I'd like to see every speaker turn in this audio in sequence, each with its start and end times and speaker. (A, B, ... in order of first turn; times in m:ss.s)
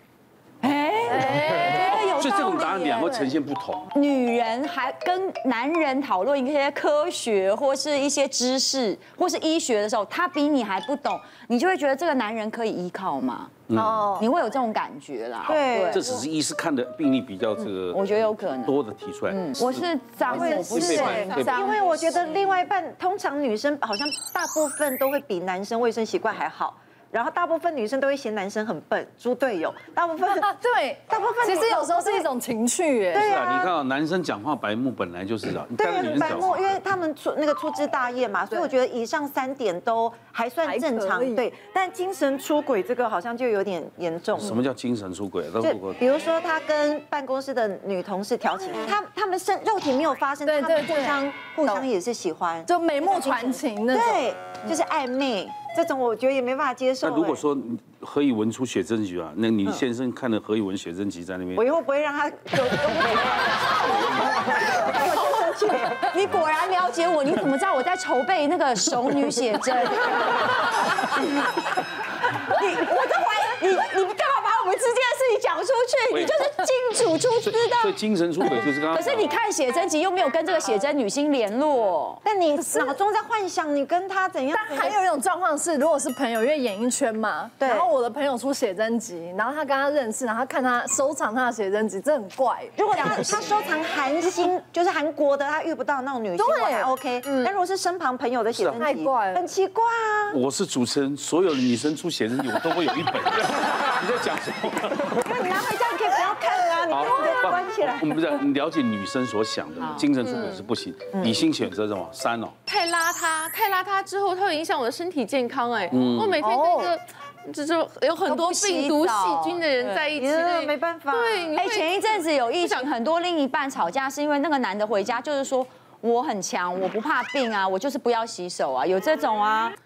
0:00.6-0:03.2 A
0:01.1-0:01.5 B
0:01.6-0:03.9 C
0:03.9-0:13.6 A
0:13.7-0:14.1 C
0:13.8-0:14.2 B
0:14.2-0:16.1 A
0:15.5-0:16.0 D
0:15.5-0:21.4 C
0:17.9-0:22.0 A
0:20.3-0:30.5 D
0:30.4-0:33.2 B
0:31.1-0:32.3 D
0:33.1-0:36.8 C
0:33.1-0:33.7 D
0:35.8-0:44.6 D
0:40.6-0:41.5 B
0:44.4-0:46.0 C
0:45.6-0:57.4 D
0:50.4-0:51.8 B
0:52.6-0:54.3 B
0:57.0-1:01.7 C
1:01.6-1:06.0 D
1:05.1-1:11.2 A
1:12.4-1:22.2 A
1:16.1-1:16.4 C
1:17.4-1:19.3 C
1:22.2-1:25.0 D
1:22.6-1:23.0 B
1:24.5-1:33.3 B
1:27.6-1:27.9 D
1:32.8-1:40.4 D
1:36.4-1:37.0 B
1:38.5-1:38.9 C
1:38.8-1:39.5 B
1:40.3-1:45.3 C
1:45.1-1:48.1 D
1:46.9-1:52.5 C
1:49.8-1:50.4 A
1:51.1-1:51.4 D
1:52.6-2:02.9 E
1:55.9-1:56.5 C
1:56.4-1:56.9 D
1:58.2-2:00.1 A
2:00.1-2:01.5 D
2:01.5-2:09.8 A